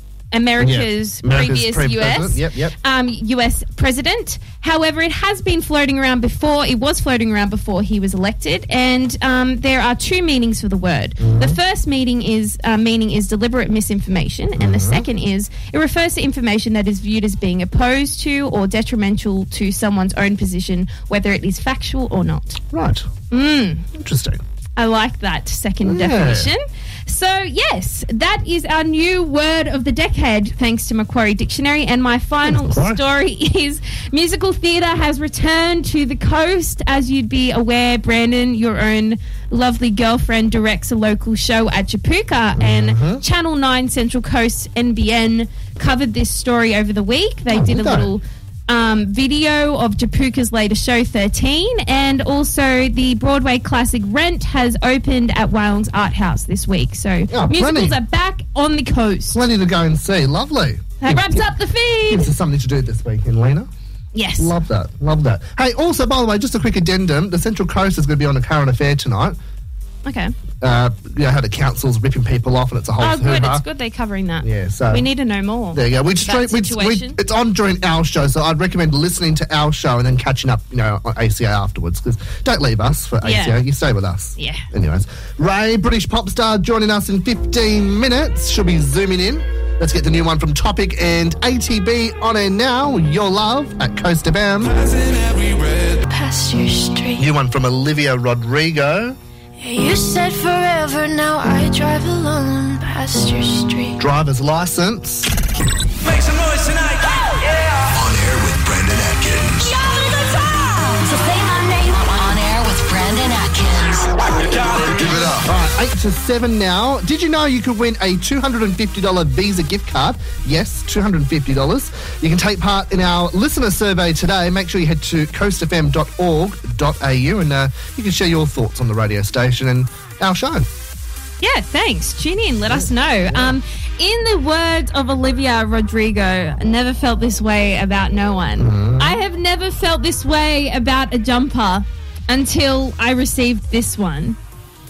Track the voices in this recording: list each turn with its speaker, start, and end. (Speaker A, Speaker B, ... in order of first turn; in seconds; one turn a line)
Speaker A: 0.3-22.6
Speaker B: 0.6-2.8
Speaker B: 11.2-11.6
Speaker B: 14.6-15.1
Speaker B: 22.7-23.1
Speaker A: 23.3-23.9
Speaker B: 23.9-24.4
Speaker A: 24.8-59.4
Speaker B: 25.8-26.5
Speaker B: 32.4-33.0
Speaker B: 42.6-43.2
Speaker B: 47.5-48.1
Speaker B: 57.3-58.0
Speaker B: 59.3-63.7
Speaker A: 61.0-62.3
Speaker A: 64.2-64.5
Speaker B: 64.4-69.4
Speaker A: 70.0-70.3
Speaker B: 70.6-73.6
Speaker A: 73.0-77.2
Speaker B: 74.4-75.1
Speaker B: 75.7-94.8
Speaker A: 83.2-83.6
Speaker A: 84.4-84.7
Speaker C: 95.1-95.5
Speaker D: 96.0-97.3
Speaker B: 97.2-99.2
Speaker D: 99.6-104.0
Speaker B: 104.0-105.3
Speaker C: 107.9-109.8
Speaker E: 110.0-114.1
Speaker C: 114.8-115.4
Speaker B: 115.4-130.7
Speaker A: 131.4-144.4
Speaker B: 132.7-133.6
Speaker B: 138.6-139.2